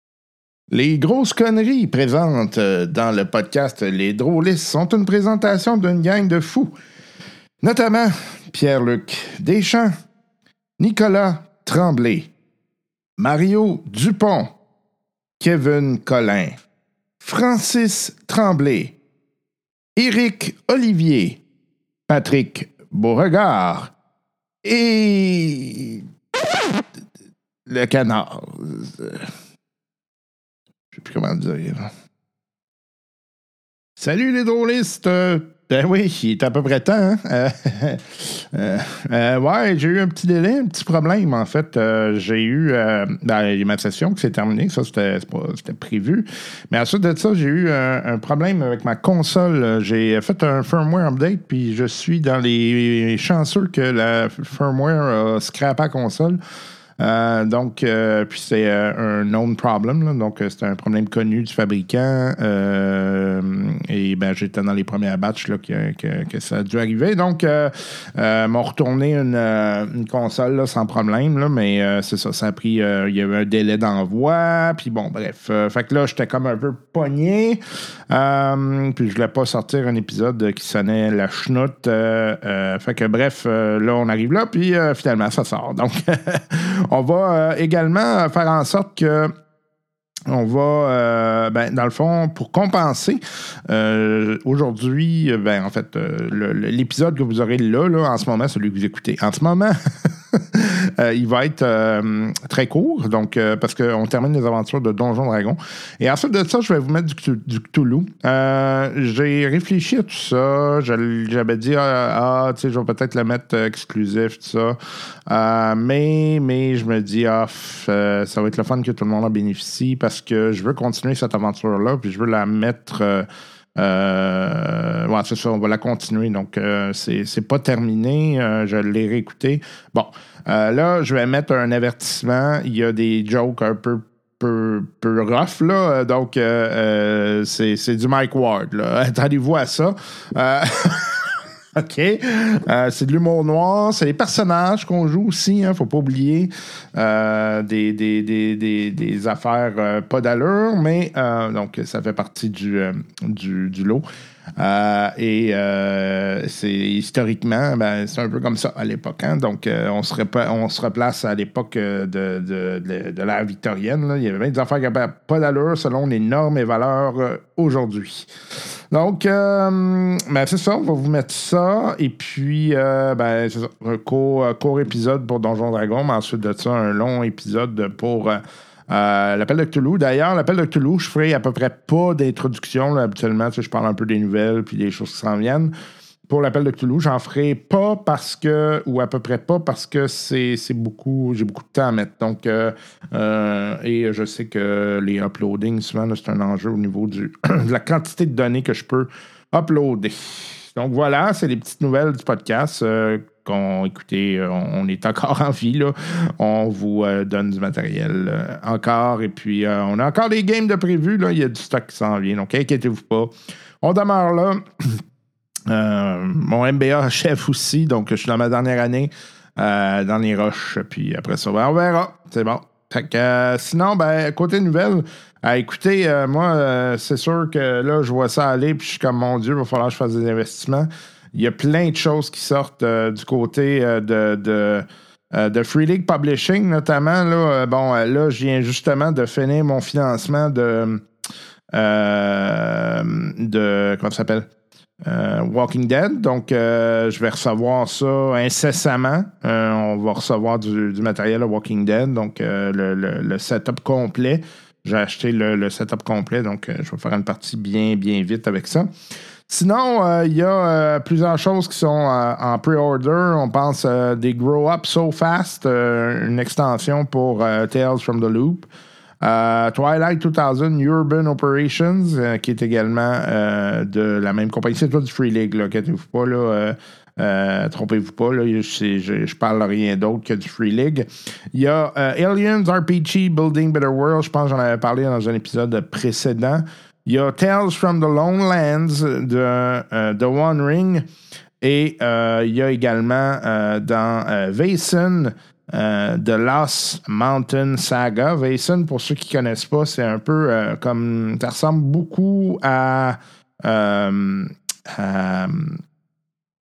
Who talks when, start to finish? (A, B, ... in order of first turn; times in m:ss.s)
0:00.7-0:06.7 A
0:07.6-0:09.9 A
0:10.8-0:12.3 A
0:13.2-0:14.5 A
0:15.4-0:16.6 A
0:17.2-0:19.0 A
0:20.0-0:21.4 A
0:22.1-0:23.9 A
0:24.6-0:26.8 A
0:27.7-0:29.3 A
0:30.9-0:31.9 A
0:34.0-0:56.4 A
0:57.0-1:29.3 A
1:30.3-2:34.0 A
2:34.6-2:48.3 A
2:48.9-3:05.7 A
3:06.3-3:35.0 A
3:35.7-4:01.0 A
4:01.7-4:04.5 A
4:05.0-4:18.9 A
4:19.5-4:28.7 A
4:29.2-4:51.1 A
4:51.6-5:05.8 A